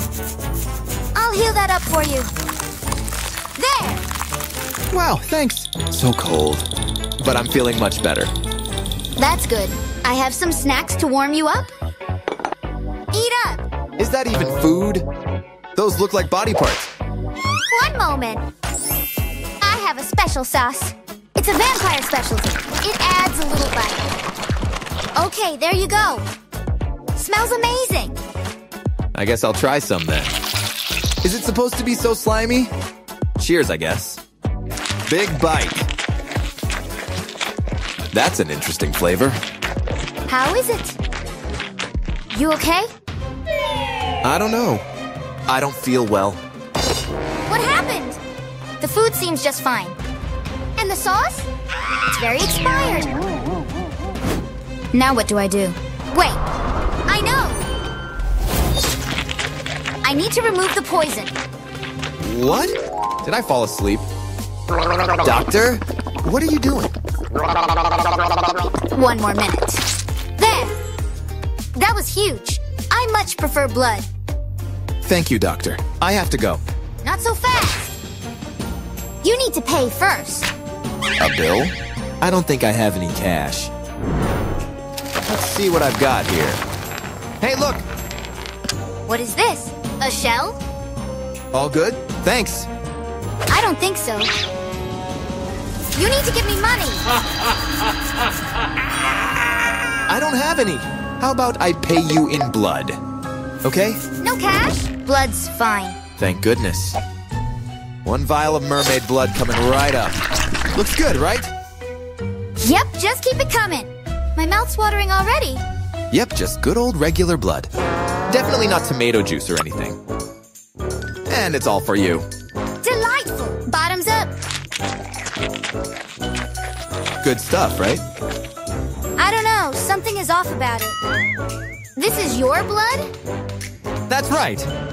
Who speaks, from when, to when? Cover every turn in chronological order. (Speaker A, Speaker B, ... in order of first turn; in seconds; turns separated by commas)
Speaker A: 1.1-2.3, Speaker A: 3.6-4.0, Speaker B: 4.9-6.7, Speaker B: 7.2-8.3, Speaker A: 9.2-11.7, Speaker A: 13.1-13.6, Speaker B: 14.0-15.1, Speaker B: 15.8-16.9, Speaker A: 17.7-18.4, Speaker A: 19.6-24.1, Speaker A: 25.1-26.3, Speaker A: 27.1-28.2, Speaker B: 29.1-30.3, Speaker B: 31.2-32.7, Speaker B: 33.4-34.2, Speaker B: 35.0-35.8, Speaker B: 38.1-39.4, Speaker A: 40.3-41.0, Speaker A: 42.3-42.9, Speaker B: 44.2-44.9, Speaker B: 45.5-46.4, Speaker A: 47.5-48.2, Speaker A: 48.8-50.0, Speaker A: 50.8-51.5, Speaker A: 52.1-53.2, Speaker A: 54.9-56.4, Speaker A: 57.1-57.6, Speaker A: 60.0-61.3, Speaker B: 62.2-64.1, Speaker B: 65.2-66.9, Speaker A: 68.9-69.9, Speaker A: 70.4-70.9, Speaker A: 71.8-74.1, Speaker B: 75.0-76.6, Speaker A: 77.0-77.9, Speaker A: 79.2-80.5, Speaker B: 81.2-83.7, Speaker B: 85.3-86.6, Speaker B: 87.4-87.8, Speaker A: 89.1-90.6, Speaker B: 91.5-92.7, Speaker A: 93.5-94.3, Speaker A: 96.0-97.1, Speaker B: 100.1-103.0, Speaker B: 103.6-104.0, Speaker A: 104.2-106.0, Speaker B: 106.2-107.0, Speaker B: 108.0-110.2, Speaker B: 110.8-111.5, Speaker A: 112.6-115.6, Speaker B: 116.1-117.7, Speaker B: 118.3-120.0, Speaker B: 121.3-122.3, Speaker A: 122.8-124.3, Speaker B: 127.2-128.0, Speaker A: 129.2-131.0, Speaker A: 132.0-133.1, Speaker B: 134.1-134.7